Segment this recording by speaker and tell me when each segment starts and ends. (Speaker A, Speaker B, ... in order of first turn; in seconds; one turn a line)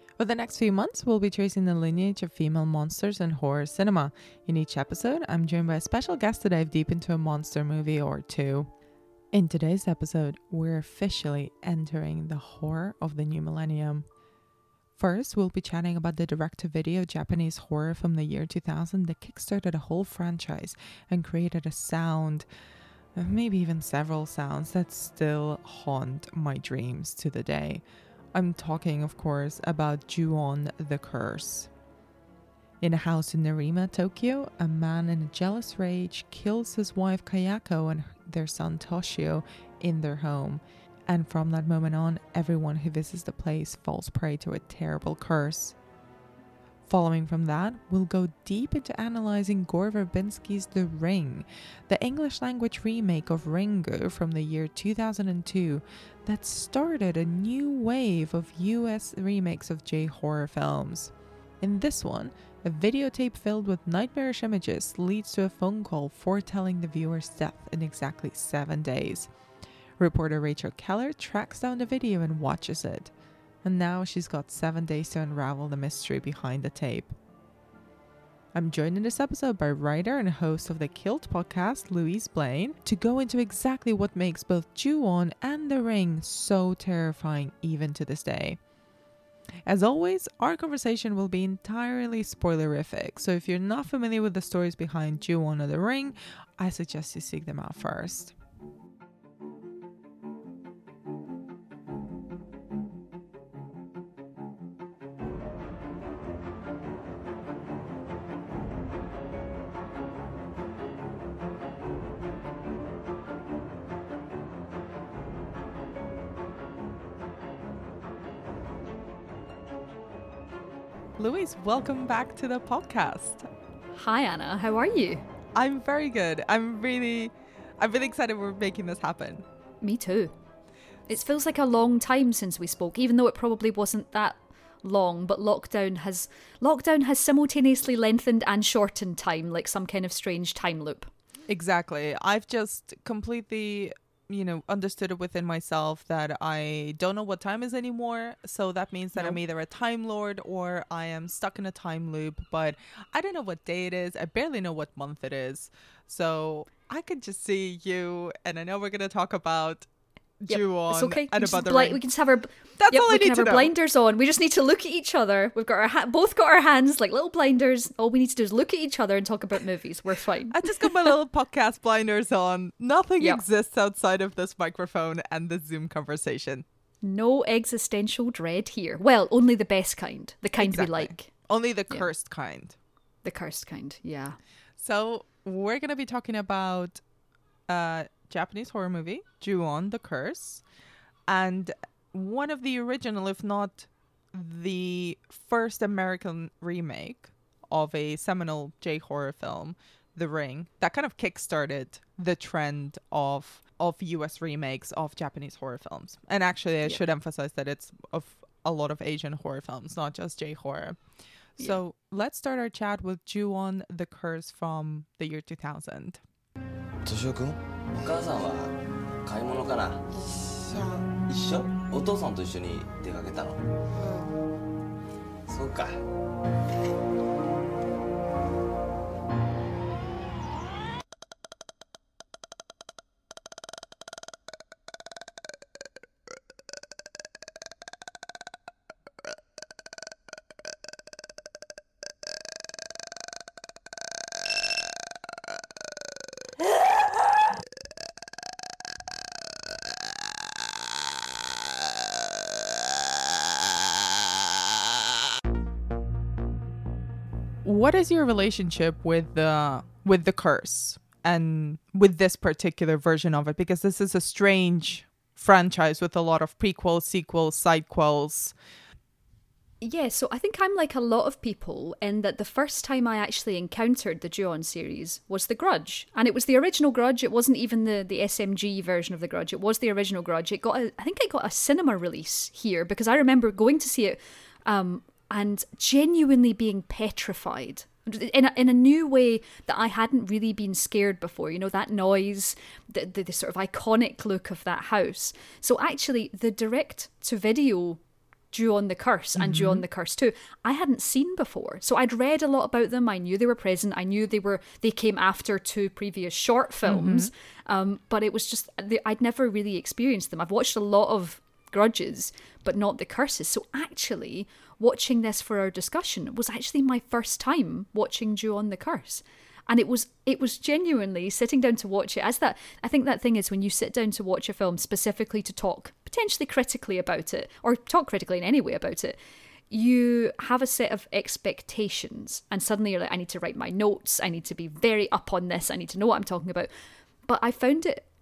Speaker A: 0.2-8.7
Speaker A: 9.3-14.0
Speaker A: 14.9-22.5
Speaker A: 23.1-27.8
Speaker A: 28.3-31.7
Speaker A: 32.8-45.8
Speaker A: 46.9-69.3
Speaker A: 70.0-73.1
Speaker A: 73.6-77.1
Speaker A: 78.5-88.6
Speaker A: 89.7-98.3
Speaker A: 121.2-123.5
Speaker B: 123.9-125.2
Speaker A: 125.5-129.4
Speaker B: 129.8-130.3
Speaker B: 131.1-141.1
Speaker A: 141.5-159.9
Speaker A: 160.4-162.0
Speaker B: 160.5-171.1
Speaker A: 162.8-163.7
Speaker A: 170.5-176.6
Speaker B: 177.0-181.3
Speaker A: 180.6-182.8
Speaker B: 183.2-184.4
Speaker A: 184.8-187.0
Speaker A: 187.7-190.6
Speaker A: 191.3-211.0
Speaker A: 211.6-216.2
Speaker C: 217.0-223.6
Speaker C: 225.5-226.0
Speaker A: 257.6-268.5
Speaker B: 269.8-298.0
Speaker B: 298.5-329.2
Speaker A: 299.4-299.8
Speaker A: 306.8-307.3
Speaker B: 329.7-336.7
Speaker B: 337.2-338.1